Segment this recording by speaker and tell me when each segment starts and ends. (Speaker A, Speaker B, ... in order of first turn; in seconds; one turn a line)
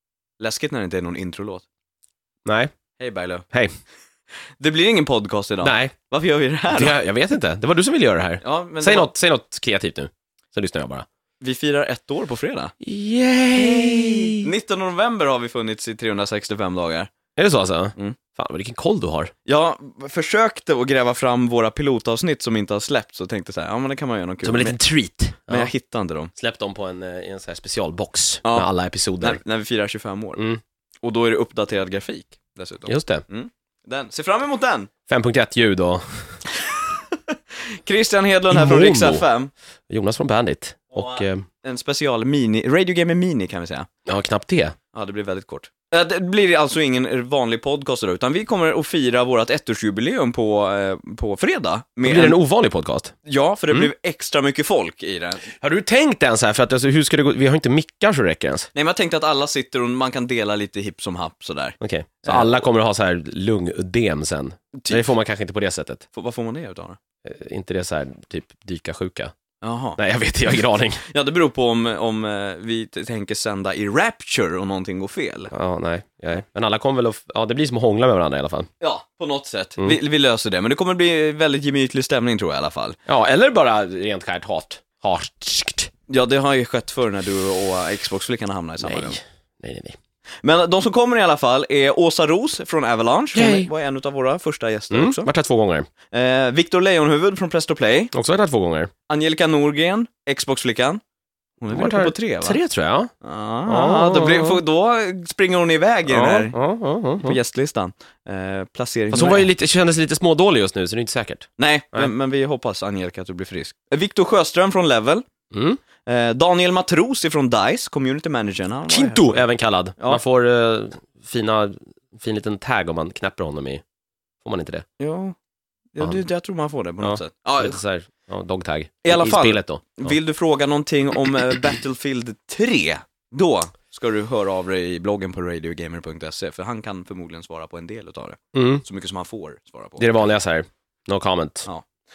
Speaker A: 0.4-1.6
Speaker B: 2.4-2.7
Speaker A: 3.0-3.5
Speaker A: 4.6-7.0
Speaker B: 5.6-5.9
Speaker B: 6.7-11.0
Speaker A: 8.4-9.1
Speaker A: 11.4-12.7
Speaker B: 12.8-14.5
Speaker A: 13.5-17.1
Speaker B: 17.4-19.3
Speaker A: 19.4-24.8
Speaker B: 24.4-25.7
Speaker A: 25.5-26.3
Speaker B: 26.3-29.4
Speaker A: 28.4-30.4
Speaker A: 31.0-34.9
Speaker B: 32.9-33.2
Speaker B: 35.1-36.3
Speaker A: 36.6-37.1
Speaker A: 37.8-39.5
Speaker B: 38.5-39.2
Speaker B: 39.9-41.4
Speaker A: 40.9-43.9
Speaker B: 44.0-44.7
Speaker A: 44.9-52.4
Speaker B: 52.0-53.1
Speaker A: 53.2-55.4
Speaker B: 55.6-58.7
Speaker A: 58.7-62.5
Speaker B: 61.8-66.0
Speaker A: 64.7-65.1
Speaker A: 66.1-67.0
Speaker B: 67.2-69.3
Speaker A: 69.6-70.0
Speaker B: 70.0-71.0
Speaker A: 71.0-75.5
Speaker B: 75.5-78.7
Speaker A: 78.8-83.0
Speaker B: 83.1-85.9
Speaker A: 86.1-89.2
Speaker B: 88.8-89.9
Speaker A: 90.4-95.3
Speaker B: 93.3-93.7
Speaker B: 94.9-95.9
Speaker A: 96.1-98.1
Speaker B: 98.1-98.9
Speaker A: 99.1-101.0
Speaker A: 101.6-102.6
Speaker B: 101.7-103.1
Speaker A: 103.2-106.5
Speaker B: 103.7-104.6
Speaker B: 106.1-107.4
Speaker A: 107.2-109.5
Speaker B: 109.1-112.1
Speaker A: 111.6-115.2
Speaker B: 115.5-115.8
Speaker A: 116.0-119.5
Speaker B: 118.9-123.8
Speaker B: 124.4-124.8
Speaker A: 125.0-125.3
Speaker A: 125.9-127.8
Speaker B: 127.0-130.1
Speaker A: 129.0-140.2
Speaker B: 138.5-138.8
Speaker B: 140.0-141.7